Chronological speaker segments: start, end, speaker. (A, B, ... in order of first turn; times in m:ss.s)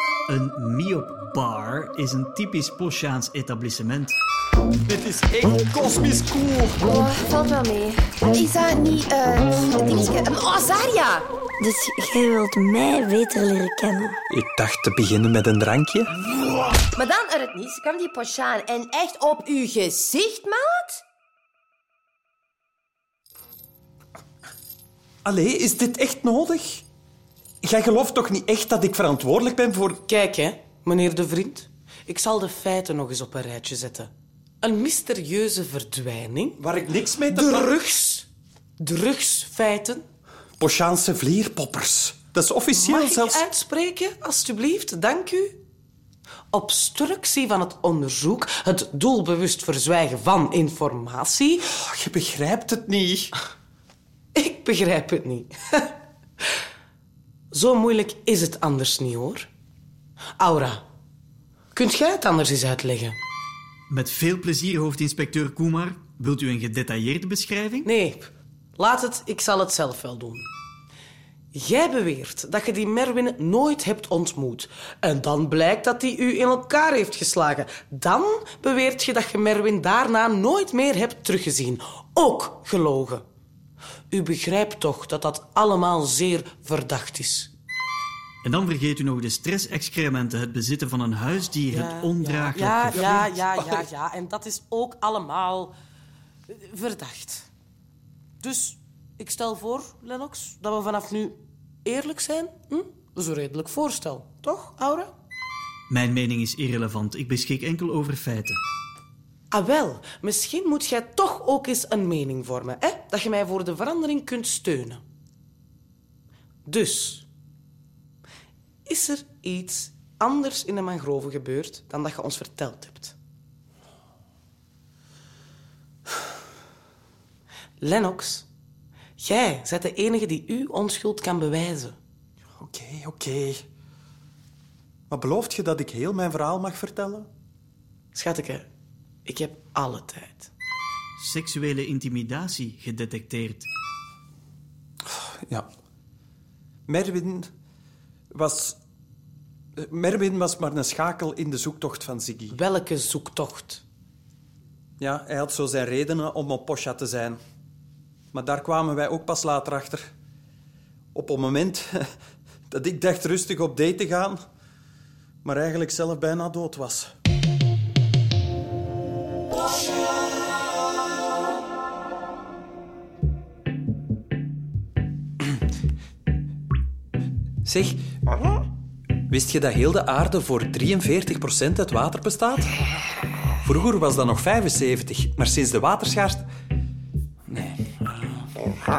0:00.3-0:04.2 A
0:04.8-0:06.8 B
0:06.8-0:11.3 C
0:11.6-0:14.2 D
0:14.3-0:16.1 B
0:16.9-0:21.0 C
0:25.2-0:26.8 B
0:27.6-0:30.0 B
0:30.1-0:34.1 E
0:34.6-0:36.6 E
0:36.6-0:37.7 B
0:37.3-0:38.3 E
0:38.8-0:40.0 E
0:40.6-0:43.4 B
0:42.7-0:45.6 E
0:46.5-0:51.6 E
0:51.7-0:53.3 B
0:54.3-0:56.0 E
0:57.5-0:59.5 E
1:00.4-1:00.8 E
1:01.7-1:03.2 E
1:03.9-1:07.9 A
1:07.8-1:10.5 E
1:11.5-1:23.2 E
1:24.1-1:27.5 E
1:28.4-1:33.1 A
1:31.7-1:35.7 E
1:32.9-1:33.8 B
1:36.5-1:37.5 E
1:38.4-1:45.1 E
1:45.9-1:48.6 A
1:49.5-1:55.0 E
1:56.6-1:57.3 E
1:58.8-2:03.2 E
2:07.8-2:08.5 E
2:09.2-2:12.0 E
2:12.6-2:13.6 B
2:15.1-2:17.3 B
2:18.1-2:18.7 E
2:19.2-2:20.5 E
2:21.2-2:23.7 A
2:25.0-2:25.6 B
2:26.9-2:27.5 B
2:28.3-2:28.8 B
2:29.8-2:32.6 B
2:32.5-2:33.8 E
2:35.0-2:37.4 B
2:38.3-2:40.0 B
2:41.1-2:42.0 B
2:42.7-2:44.4 B
2:45.4-2:47.1 B
2:57.6-2:58.0 B
2:59.3-3:02.7 B
3:03.6-3:06.5 B
3:07.5-3:08.5 B